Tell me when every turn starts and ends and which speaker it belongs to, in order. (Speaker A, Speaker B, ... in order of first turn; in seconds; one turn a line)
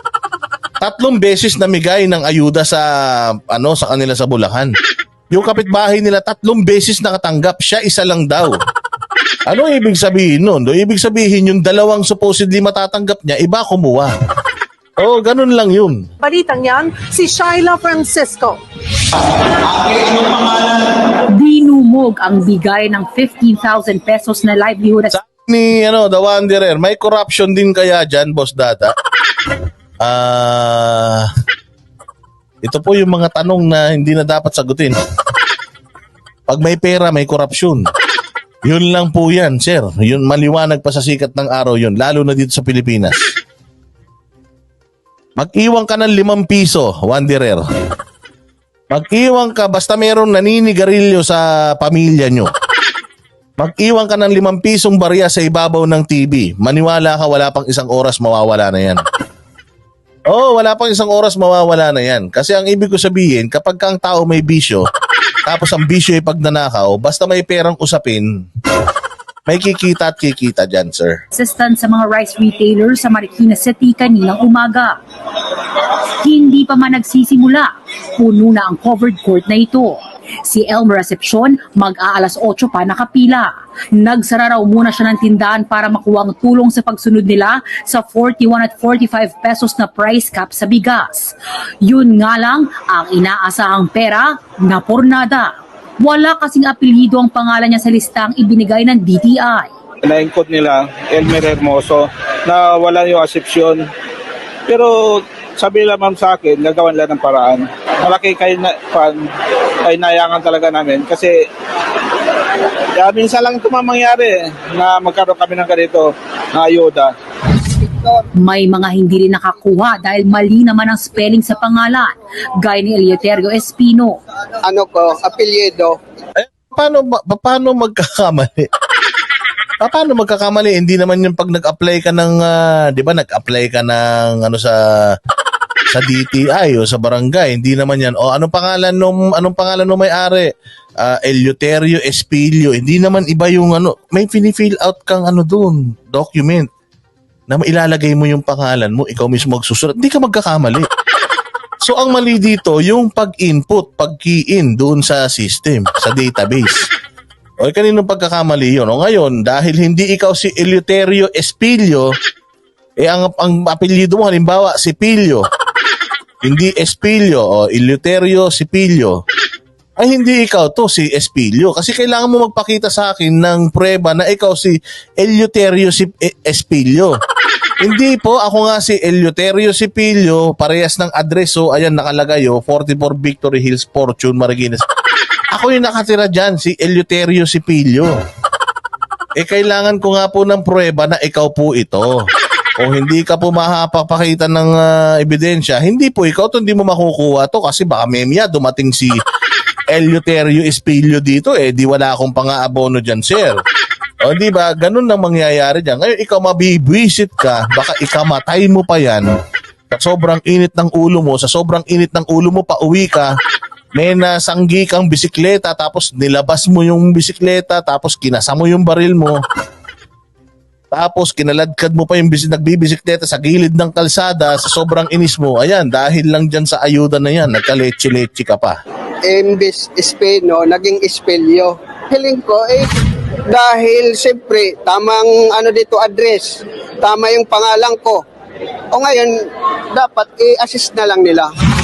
Speaker A: 0.8-4.7
Speaker A: 5.3-8.6
Speaker A: 9.5-14.1
Speaker A: 15.0-16.0
Speaker B: 16.2-18.6
Speaker C: 21.3-25.1
Speaker A: 25.1-28.9
Speaker A: 30.0-31.3
Speaker A: 32.6-35.0
Speaker A: 36.5-37.9
Speaker A: 38.6-43.3
Speaker A: 45.4-47.6
Speaker A: 48.9-52.5
Speaker A: 53.6-59.0
Speaker A: 60.3-64.8
Speaker A: 65.5-68.3
Speaker A: 69.5-71.2
Speaker C: 71.3-75.0
Speaker C: 75.8-91.3
Speaker C: 91.8-99.7
Speaker D: 100.0-103.9
Speaker D: 104.7-109.3
Speaker D: 109.8-111.5
Speaker D: 113.0-117.1
Speaker C: 118.4-124.2
Speaker E: 124.6-126.0
Speaker A: 126.4-128.7
Speaker A: 129.8-135.2
Speaker A: 135.9-146.7
Speaker A: 147.5-150.9
Speaker A: 151.8-156.9
Speaker A: 157.6-162.1
Speaker A: 163.0-165.4
Speaker A: 166.4-169.2
Speaker A: 170.0-177.1
Speaker A: 177.8-184.8
Speaker A: 185.5-188.1
Speaker A: 189.4-192.3
Speaker A: 192.8-199.2
Speaker A: 199.9-203.6
Speaker A: 204.2-209.3
Speaker A: 209.9-213.3
Speaker A: 213.9-219.4
Speaker A: 220.9-228.8
Speaker E: 229.2-232.9
Speaker E: 233.5-238.2
Speaker E: 238.9-239.4
Speaker E: 239.9-241.5